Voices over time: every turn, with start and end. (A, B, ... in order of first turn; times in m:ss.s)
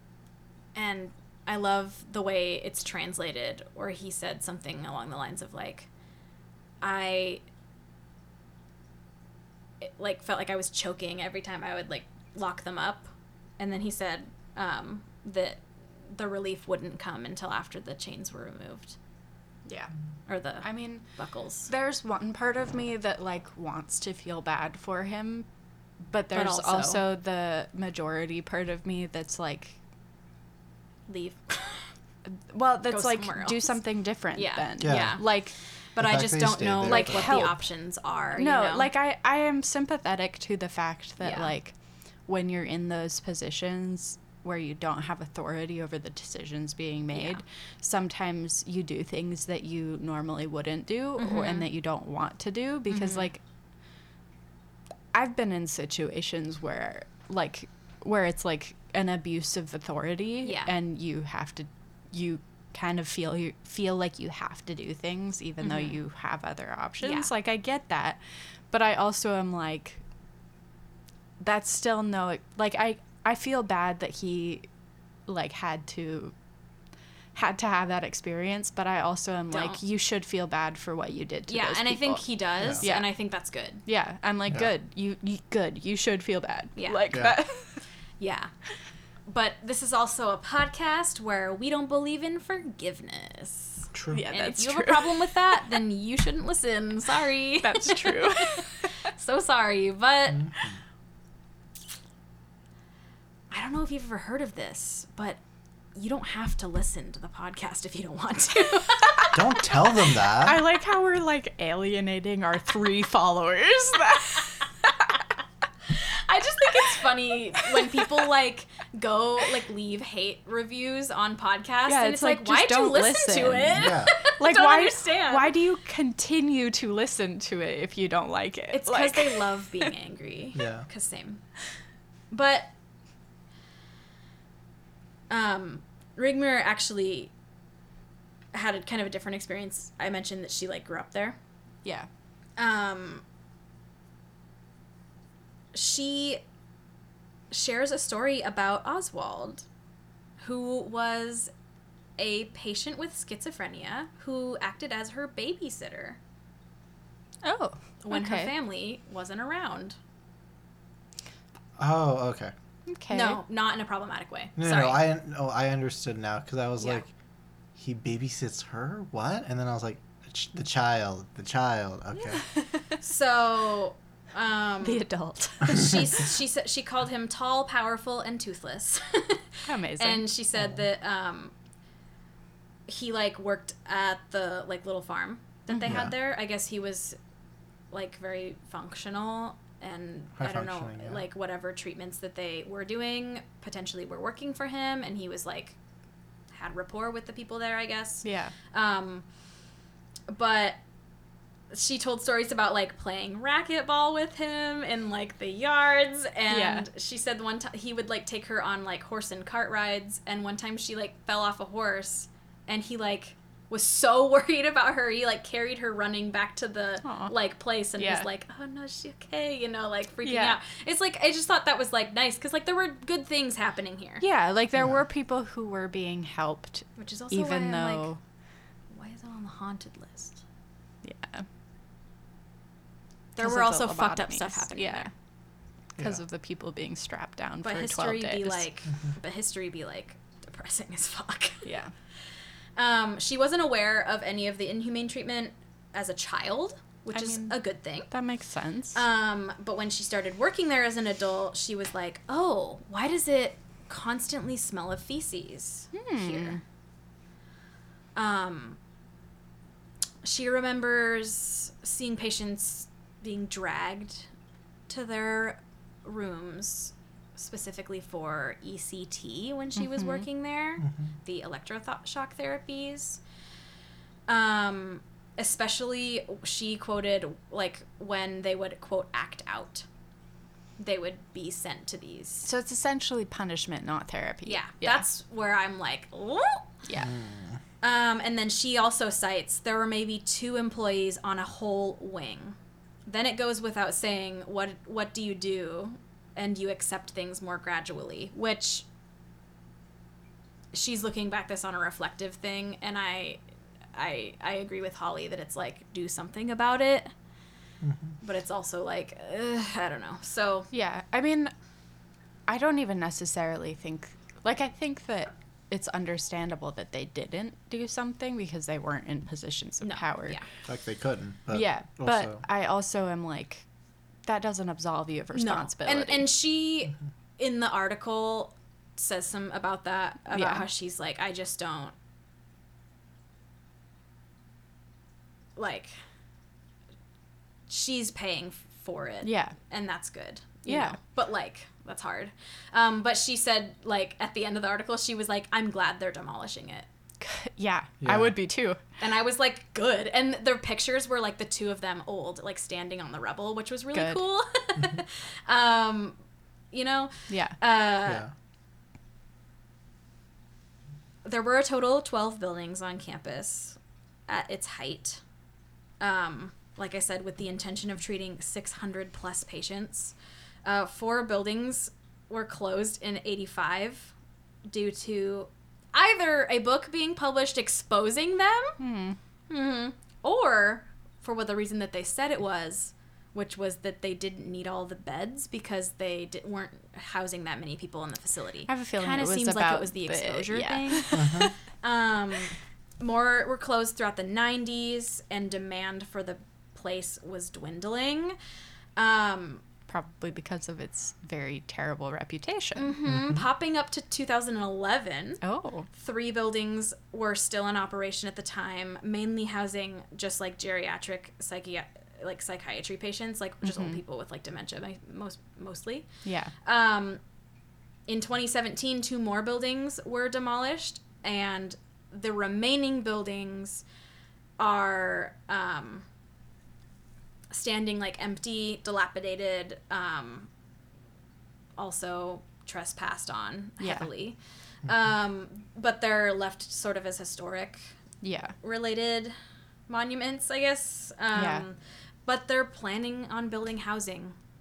0:00.8-0:05.9 A
0:06.8-0:07.4 A
0:09.8-0:19.0 A
0:19.7-0:19.9 B
0:20.3-0:21.7 A
0:20.6-0:21.1 B
0:21.7-0:25.5 B
0:26.1-0:29.8 B
0:26.3-0:27.0 A
0:31.1-0:31.9 A
0:32.3-0:35.5 B
0:32.9-0:33.7 A
0:34.4-0:35.2 A
0:34.8-0:35.2 C
0:36.0-0:38.9 A
0:36.0-0:37.6 C
0:36.8-0:37.6 B
0:38.4-0:41.7 B
0:41.2-0:41.5 A
0:42.3-0:53.4 B
0:47.1-0:47.4 A
0:51.2-0:51.7 A
0:52.9-0:53.3 A
0:55.1-1:08.2 B
1:00.4-1:00.7 A
1:05.6-1:06.0 A
1:07.0-1:07.3 A
1:08.7-1:10.0 B
1:11.4-1:14.7 B
1:15.3-1:16.3 B
1:17.4-1:22.3 B
1:19.5-1:19.8 A
1:21.5-1:23.8 A
1:22.8-1:23.1 B
1:23.9-1:27.8 B
1:26.8-1:27.0 A
1:27.1-1:27.4 C
1:28.2-1:28.5 A
1:29.3-1:40.5 A
1:33.9-1:34.2 C
1:34.1-1:35.5 B
1:37.6-1:39.0 B
1:40.4-1:40.8 C
1:43.5-1:45.4 A
1:46.0-1:49.7 A
1:49.3-1:50.6 C
1:50.2-1:54.9 B
1:55.9-2:05.6 A
1:57.8-1:58.0 B
2:01.9-2:09.9 B
2:03.8-2:04.1 C
2:08.7-2:11.4 A
2:10.6-2:10.9 C
2:12.3-2:12.7 A
2:15.3-2:17.3 A
2:18.5-2:21.4 A
2:22.6-2:23.2 A
2:25.7-2:26.4 A
2:27.5-2:29.7 A
2:30.4-2:31.5 A
2:32.2-2:36.2 A
2:37.4-2:38.5 B
2:38.0-2:40.0 A
2:41.8-2:42.5 C
2:42.9-2:43.4 B
2:43.1-2:45.0 A
2:44.6-2:47.1 C
2:47.8-2:52.4 C
2:52.4-2:52.8 B
2:53.0-2:55.1 A
2:54.8-2:56.0 B
2:55.6-3:01.5 A
2:59.7-3:00.3 B
3:02.9-3:07.2 A
3:05.7-3:06.0 B
3:07.9-3:15.8 A
3:10.4-3:11.2 C
3:16.5-3:19.2 A
3:18.2-3:18.5 B
3:20.3-3:20.8 A
3:21.7-3:44.2 A
3:26.5-3:26.9 B
3:37.0-3:37.3 B
3:38.0-3:38.3 B
3:40.2-3:40.6 B
3:44.2-3:48.2 B
3:47.0-3:48.1 A
3:48.9-3:50.4 A
3:51.0-3:51.5 B
3:53.4-3:55.1 A
3:53.4-3:55.1 B
3:56.0-3:58.7 B
3:57.6-4:01.7 A
4:01.6-4:01.9 B
4:02.8-4:08.1 A
4:07.1-4:07.6 B
4:08.1-4:09.0 B
4:08.9-4:16.6 A
4:15.9-4:16.6 B
4:18.2-4:18.8 A
4:20.2-4:24.3 A
4:24.9-4:33.2 A
4:29.8-4:30.2 B
4:30.8-4:31.1 C
4:34.3-4:39.9 A
4:40.8-4:42.5 A
4:42.4-4:45.1 B
4:44.4-4:46.7 A
4:46.9-4:47.1 B
4:47.0-4:47.6 C
4:47.8-4:52.6 A
4:53.1-4:58.9 A
5:00.7-5:03.4 A
5:03.9-5:07.1 A
5:07.8-5:08.2 C
5:08.2-5:10.7 A
5:10.7-5:11.5 B
5:12.5-5:20.4 B
5:19.8-5:20.4 A
5:20.7-5:22.4 C
5:21.5-5:23.6 B
5:24.3-5:26.3 B
5:25.3-5:31.9 A
5:30.3-5:30.7 B
5:35.6-5:35.9 A
5:37.7-5:46.9 A
5:39.2-5:39.6 B
5:40.6-5:41.0 B
5:47.2-5:48.8 B
5:48.0-5:48.4 C
5:49.0-5:56.2 A
5:53.9-5:54.3 B
5:56.7-5:58.3 A
5:57.3-5:57.6 B
5:58.1-5:58.3 C
6:01.2-6:05.2 A
6:06.0-6:14.1 A
6:14.7-6:18.8 A
6:18.8-6:19.2 B
6:19.5-6:38.4 A
6:28.7-6:31.5 B
6:31.1-6:31.5 C
6:39.0-6:39.6 A
6:39.9-6:43.0 B
6:42.8-6:45.4 A
6:43.1-6:43.4 C
6:45.4-6:45.9 B
6:45.9-6:56.1 A
6:53.6-6:54.0 B
6:56.3-6:56.5 B
6:56.6-6:57.2 A
6:58.1-7:03.8 A
7:04.6-7:06.1 A
7:07.5-7:10.5 A
7:11.8-7:17.9 A
7:13.8-7:14.1 B
7:18.2-7:18.6 B
7:18.6-7:19.4 A
7:19.9-7:24.4 A
7:21.4-7:21.6 B